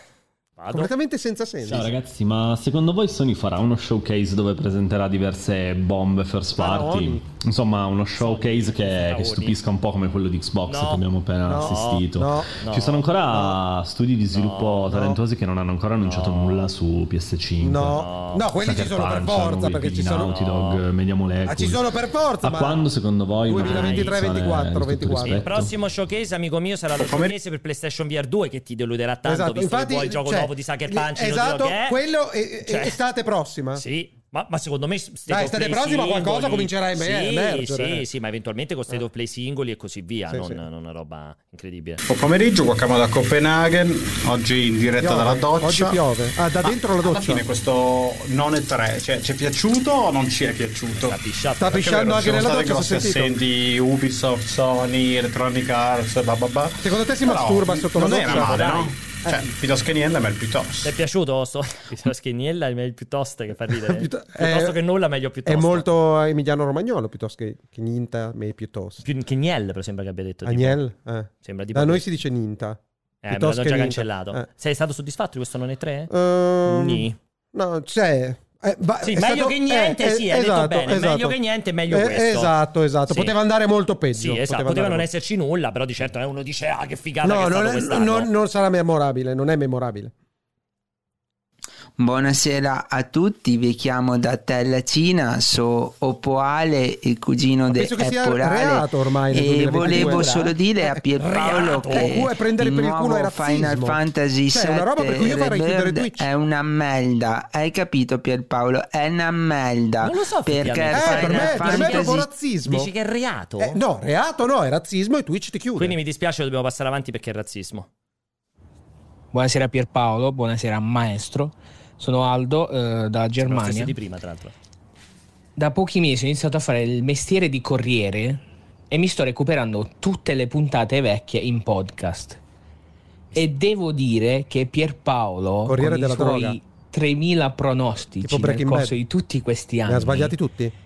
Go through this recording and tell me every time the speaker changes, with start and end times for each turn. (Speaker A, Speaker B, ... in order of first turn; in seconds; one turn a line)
Speaker A: 0.6-0.9
Speaker B: 0.7-1.8
Speaker C: 1.6-18.0
Speaker B: 6.6-7.2
Speaker A: 8.1-9.6
Speaker A: 10.6-11.0
Speaker B: 11.5-12.6
Speaker A: 11.5-12.1
Speaker A: 12.6-13.1
Speaker B: 13.3-13.6
Speaker A: 14.3-15.1
Speaker B: 14.9-15.2
Speaker A: 16.0-16.7
Speaker B: 17.6-20.3
Speaker A: 17.9-18.4
Speaker C: 18.5-25.8
Speaker A: 20.2-20.8
Speaker B: 21.4-22.8
Speaker B: 23.5-25.4
Speaker A: 23.6-24.2
Speaker A: 25.2-32.0
Speaker B: 29.2-33.8
Speaker A: 32.6-33.0
Speaker A: 33.7-42.0
Speaker B: 35.3-38.0
Speaker B: 40.3-40.6
Speaker D: 42.0-51.2
Speaker B: 45.0-47.4
Speaker A: 51.0-52.1
Speaker B: 51.6-53.4
Speaker D: 51.7-60.9
Speaker B: 56.8-59.4
Speaker A: 58.2-58.9
Speaker A: 60.8-65.8
Speaker B: 63.9-64.8
Speaker B: 65.4-69.0
Speaker A: 69.0-70.8
Speaker B: 70.4-74.5
Speaker A: 71.4-72.1
Speaker A: 73.2-76.1
Speaker B: 76.1-81.4
Speaker A: 76.6-77.2
Speaker A: 79.0-82.5
Speaker B: 81.9-85.1
Speaker A: 83.1-83.3
Speaker A: 84.1-88.3
Speaker B: 87.2-90.1
Speaker E: 92.0-112.3
Speaker B: 97.7-106.2
Speaker A: 101.2-102.2
Speaker A: 110.0-113.8
Speaker B: 110.9-112.9
Speaker B: 113.6-115.9
Speaker A: 115.8-117.9
Speaker F: 119.3-123.9
Speaker A: 123.4-124.5
Speaker F: 125.5-132.4
Speaker F: 133.3-140.3
Speaker B: 135.7-136.6
Speaker B: 138.2-138.9
Speaker B: 139.9-140.7